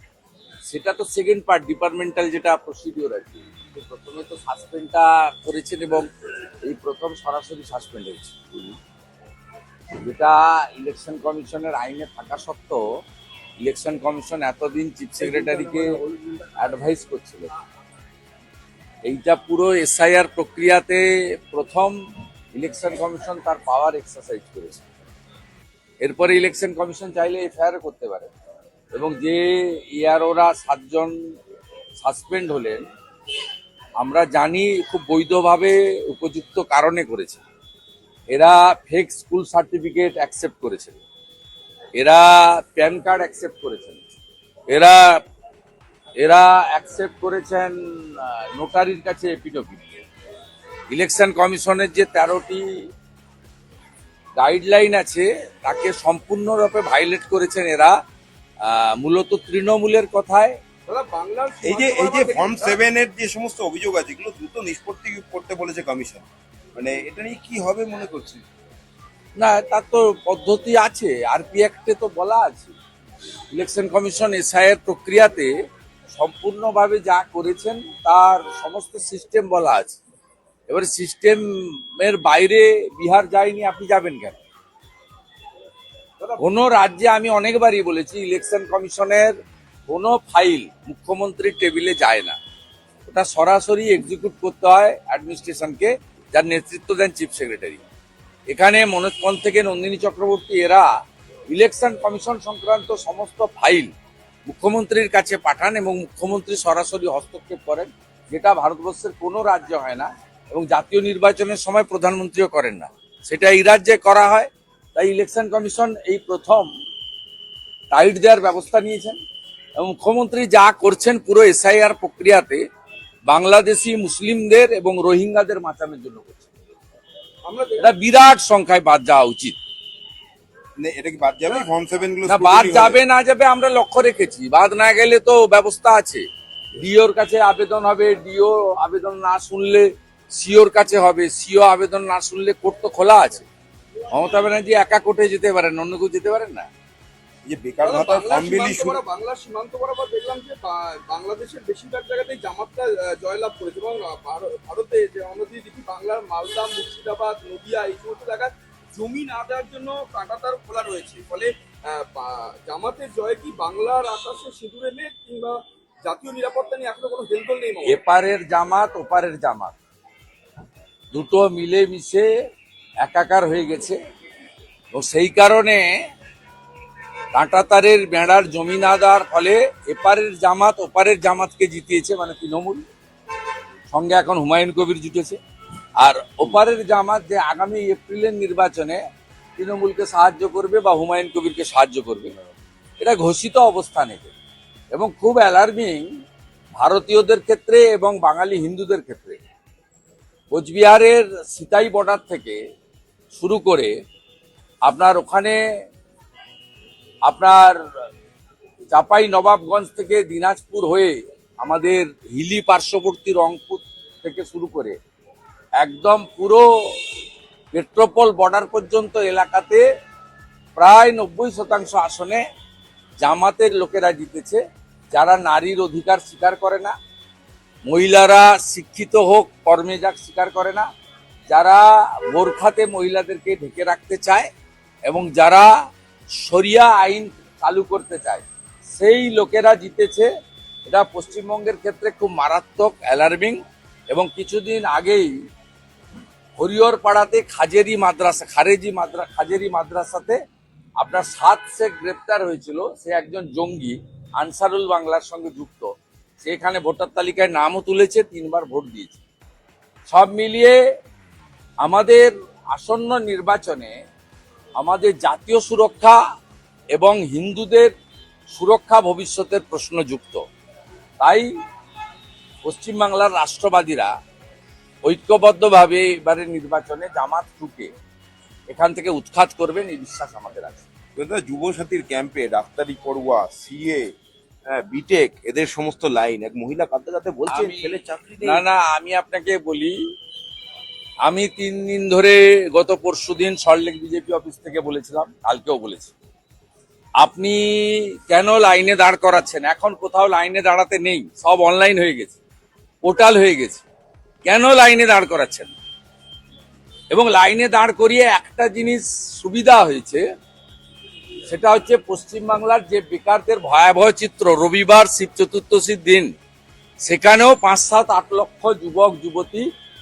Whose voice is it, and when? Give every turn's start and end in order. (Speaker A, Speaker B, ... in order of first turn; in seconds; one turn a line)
Speaker A: 0.7-8.3
Speaker A: 10.0-12.8
Speaker A: 13.6-16.0
Speaker A: 16.6-17.5
Speaker A: 19.0-22.0
Speaker A: 22.5-24.9
Speaker A: 26.0-28.3
Speaker A: 28.9-31.2
Speaker A: 32.0-32.9
Speaker A: 34.0-37.4
Speaker A: 38.3-41.0
Speaker A: 42.0-44.0
Speaker A: 44.7-45.2
Speaker A: 46.2-50.0
Speaker A: 50.9-52.7
Speaker A: 54.4-58.0
Speaker A: 58.6-60.6
Speaker B: 60.9-62.8
Speaker C: 61.6-68.4
Speaker A: 69.4-72.7
Speaker A: 73.5-75.5
Speaker A: 76.1-80.0
Speaker A: 80.7-84.4
Speaker A: 86.4-89.3
Speaker A: 89.9-92.4
Speaker A: 93.1-97.8
Speaker A: 98.5-100.9
Speaker A: 101.5-103.9
Speaker A: 104.5-116.7
Speaker A: 117.9-119.2
Speaker A: 119.8-122.6
Speaker A: 123.3-126.5
Speaker B: 127.5-127.9
Speaker A: 127.8-129.6
Speaker C: 130.8-133.0
Speaker A: 132.3-136.2
Speaker A: 136.8-143.5
Speaker A: 144.1-146.7
Speaker C: 147.5-149.0
Speaker B: 147.8-168.0
Speaker A: 167.9-169.8
Speaker A: 171.1-172.3
Speaker A: 173.0-174.0
Speaker A: 174.9-176.0
Speaker A: 177.3-182.8
Speaker A: 183.9-185.4
Speaker A: 186.0-189.0
Speaker A: 189.6-192.3
Speaker A: 193.0-194.3
Speaker A: 194.9-196.1
Speaker A: 196.8-199.4
Speaker A: 200.5-202.6
Speaker A: 203.3-203.9
Speaker A: 204.8-205.6
Speaker A: 207.2-207.8
Speaker A: 208.9-215.0
Speaker A: 215.8-217.0
Speaker A: 217.7-219.8
Speaker A: 220.8-222.4
Speaker A: 223.2-224.6
Speaker A: 225.1-226.9
Speaker A: 227.9-230.9
Speaker A: 231.5-234.5
Speaker A: 235.1-235.7
Speaker A: 236.4-240.3
Speaker A: 240.9-245.3
Speaker A: 246.6-250.4
Speaker A: 251.0-255.9
Speaker A: 256.4-259.2
Speaker A: 260.1-260.8
Speaker A: 261.8-264.0
Speaker A: 264.8-266.2
Speaker A: 266.9-267.9
Speaker A: 268.5-270.4
Speaker A: 271.2-271.5
Speaker A: 272.6-274.1
Speaker A: 275.0-277.9
Speaker A: 278.7-280.8
Speaker C: 281.2-284.0
Speaker C: 284.7-288.6
Speaker A: 287.5-290.0
Speaker A: 291.2-296.1
Speaker A: 297.2-302.4
Speaker A: 303.0-303.9
Speaker A: 304.4-305.7
Speaker A: 307.1-310.2
Speaker A: 311.5-316.3
Speaker A: 317.0-319.7